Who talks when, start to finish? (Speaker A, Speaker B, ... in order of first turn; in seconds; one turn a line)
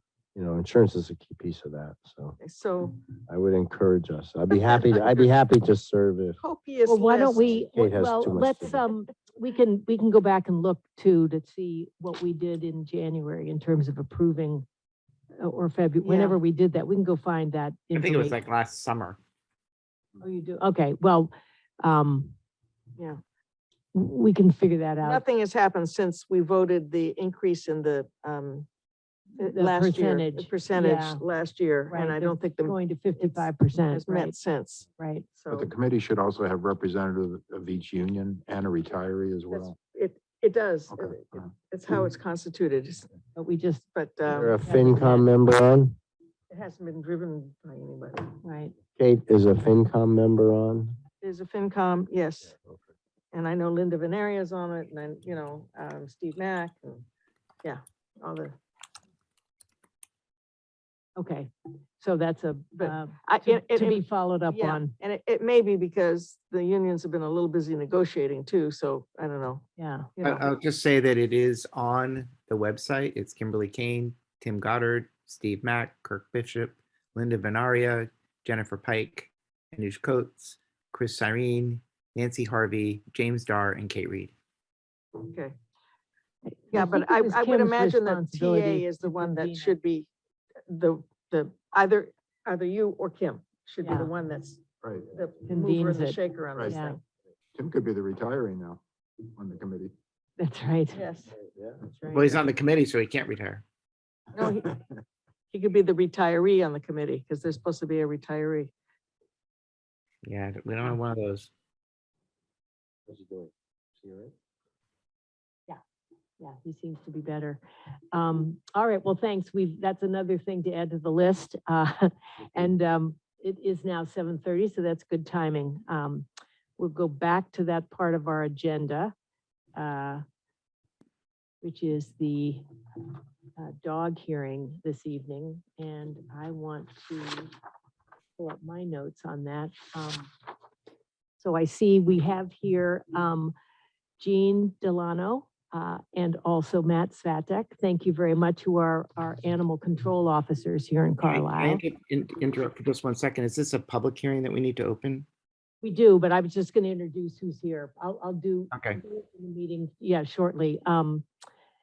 Speaker A: 0.3-2.4
Speaker B: 2.4-3.0
Speaker A: 3.3-6.4
Speaker B: 4.5-5.3
Speaker B: 6.4-7.6
Speaker C: 6.8-14.7
Speaker A: 7.6-8.9
Speaker C: 15.4-18.4
Speaker B: 16.0-16.4
Speaker D: 17.9-19.2
Speaker C: 20.2-22.3
Speaker C: 23.9-25.2
Speaker B: 25.0-28.7
Speaker C: 29.4-31.2
Speaker B: 29.4-35.7
Speaker C: 31.9-34.4
Speaker C: 34.9-35.3
Speaker E: 35.5-39.8
Speaker B: 39.5-43.1
Speaker E: 40.9-41.5
Speaker C: 43.4-43.9
Speaker B: 43.9-44.9
Speaker A: 44.2-46.0
Speaker C: 44.6-45.3
Speaker B: 46.5-48.3
Speaker C: 48.4-48.7
Speaker A: 49.0-51.0
Speaker B: 51.2-52.5
Speaker B: 53.3-57.0
Speaker B: 57.6-58.5
Speaker C: 61.2-65.0
Speaker B: 62.8-69.6
Speaker C: 69.8-70.3
Speaker B: 70.2-70.4
Speaker D: 70.2-84.3
Speaker B: 85.2-85.5
Speaker C: 86.5-89.8
Speaker B: 86.7-90.1
Speaker B: 90.7-97.0
Speaker C: 93.8-94.1
Speaker E: 94.8-95.1
Speaker C: 95.5-97.0
Speaker E: 97.5-99.9
Speaker C: 100.4-101.0
Speaker B: 100.9-101.3
Speaker C: 102.0-102.3
Speaker D: 102.1-103.6
Speaker B: 104.3-104.8
Speaker B: 105.5-108.7
Speaker D: 110.2-111.5
Speaker A: 113.1-113.5
Speaker A: 114.0-114.3
Speaker C: 116.4-117.6
Speaker C: 118.1-126.2
Speaker C: 126.8-129.1
Speaker C: 129.8-130.2
Speaker C: 131.6-132.6
Speaker C: 133.6-137.5
Speaker C: 138.4-140.3
Speaker C: 141.4-143.5
Speaker C: 144.2-151.8
Speaker D: 151.2-155.2
Speaker C: 155.8-161.2
Speaker D: 158.7-159.0